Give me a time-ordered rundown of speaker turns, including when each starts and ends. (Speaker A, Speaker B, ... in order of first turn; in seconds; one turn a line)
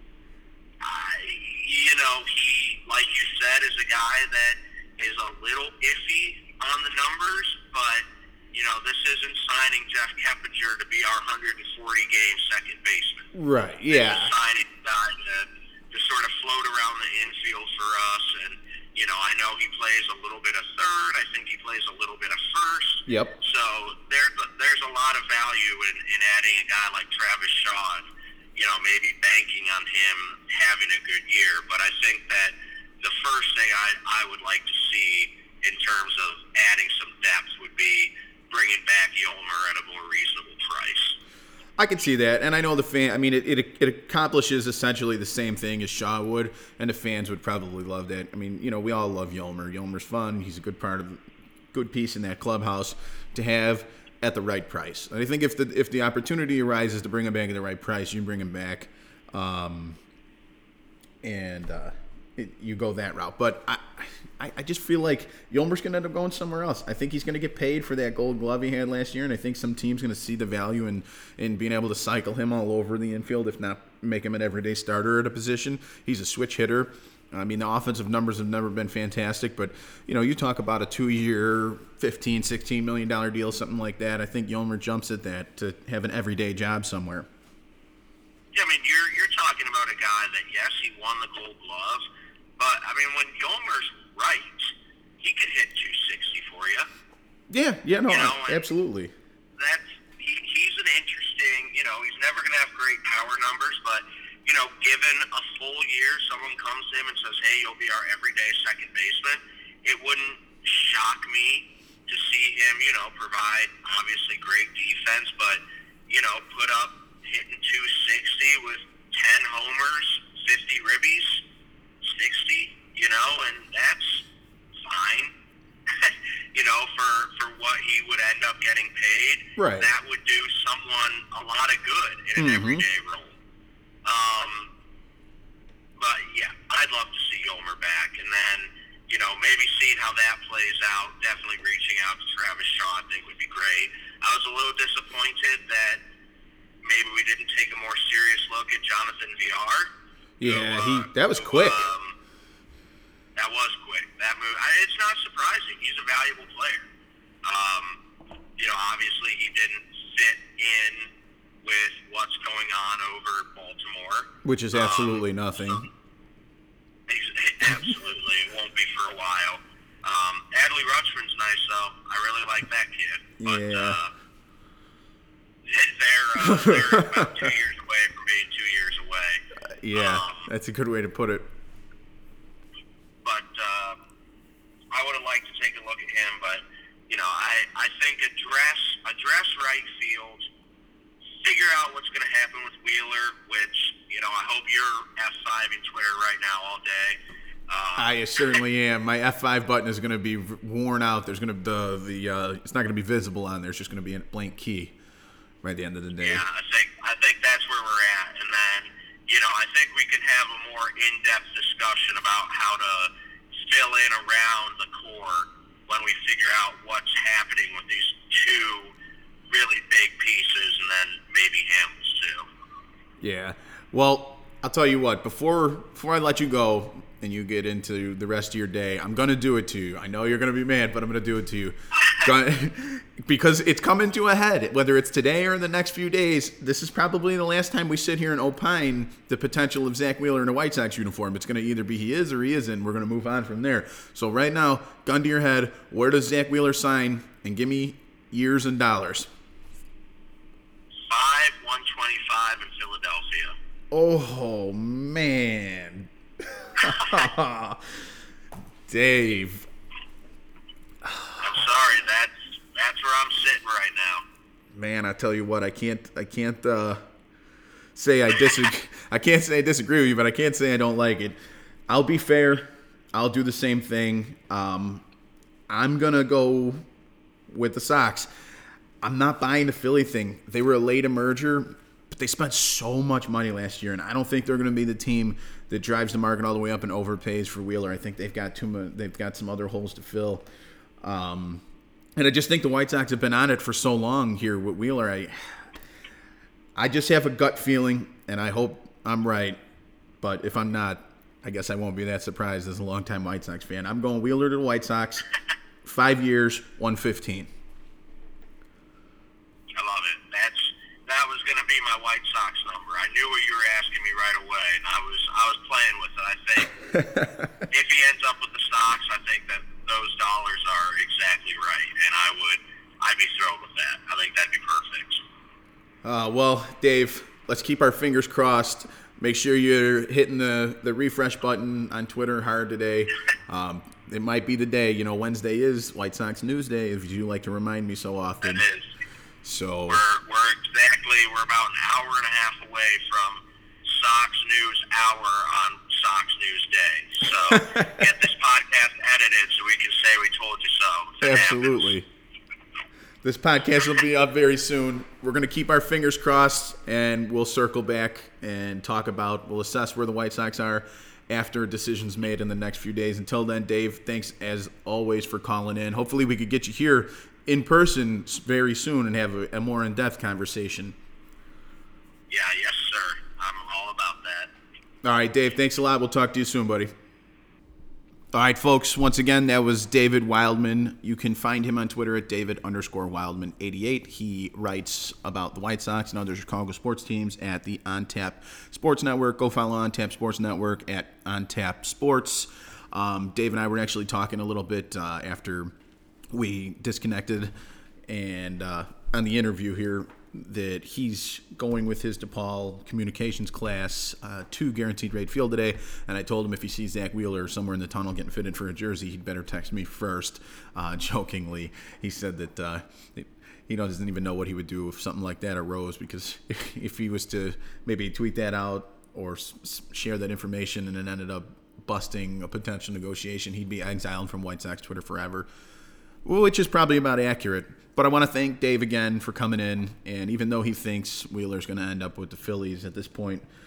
Speaker A: 0.8-13.3
Speaker B: 13.3-14.3
Speaker A: 13.9-41.2
Speaker B: 23.1-23.4
Speaker B: 41.8-51.2
Speaker B: 51.7-60.0
Speaker B: 61.2-87.3
Speaker A: 88.5-92.0
Speaker A: 92.6-96.9
Speaker B: 97.5-99.1
Speaker A: 98.1-98.6
Speaker A: 99.6-121.4
Speaker A: 122.0-124.2
Speaker A: 124.8-125.3
Speaker A: 126.0-133.4
Speaker B: 129.6-129.9
Speaker B: 132.4-132.9
Speaker A: 134.1-134.7
Speaker A: 136.0-146.0
Speaker A: 146.8-149.9
Speaker B: 150.4-151.9
Speaker A: 150.4-152.2
Speaker A: 153.4-156.9
Speaker A: 157.4-158.0
Speaker A: 158.6-161.1
Speaker A: 161.6-165.9
Speaker B: 164.4-165.9
Speaker A: 167.1-174.1
Speaker B: 173.4-174.0
Speaker A: 175.7-179.4
Speaker B: 176.4-177.5
Speaker B: 179.7-181.5
Speaker A: 179.9-180.5
Speaker A: 183.2-184.0
Speaker A: 184.9-190.5
Speaker A: 191.4-198.5
Speaker B: 198.0-204.9
Speaker B: 205.6-206.4
Speaker A: 206.2-218.9
Speaker A: 219.5-222.5
Speaker B: 223.2-249.3
Speaker A: 251.1-253.6
Speaker B: 253.9-258.0
Speaker B: 258.9-259.7
Speaker B: 261.1-261.3
Speaker A: 261.4-264.2
Speaker B: 264.7-267.0
Speaker B: 267.9-275.0
Speaker B: 275.7-276.8
Speaker B: 277.5-278.3
Speaker B: 279.0-290.5
Speaker B: 291.0-291.6
Speaker B: 292.2-295.4
Speaker B: 296.8-299.6
Speaker B: 300.2-305.3
Speaker B: 305.8-307.5
Speaker A: 309.8-316.8
Speaker B: 316.9-317.5
Speaker A: 317.7-325.2
Speaker B: 326.0-338.6
Speaker A: 338.4-338.9
Speaker B: 339.4-340.0
Speaker A: 339.9-351.9
Speaker B: 347.2-348.1
Speaker B: 351.2-352.1
Speaker B: 353.2-371.0
Speaker A: 372.3-374.5
Speaker B: 375.0-376.9
Speaker B: 378.3-395.7
Speaker B: 396.3-397.5
Speaker B: 398.1-425.5
Speaker B: 426.2-433.5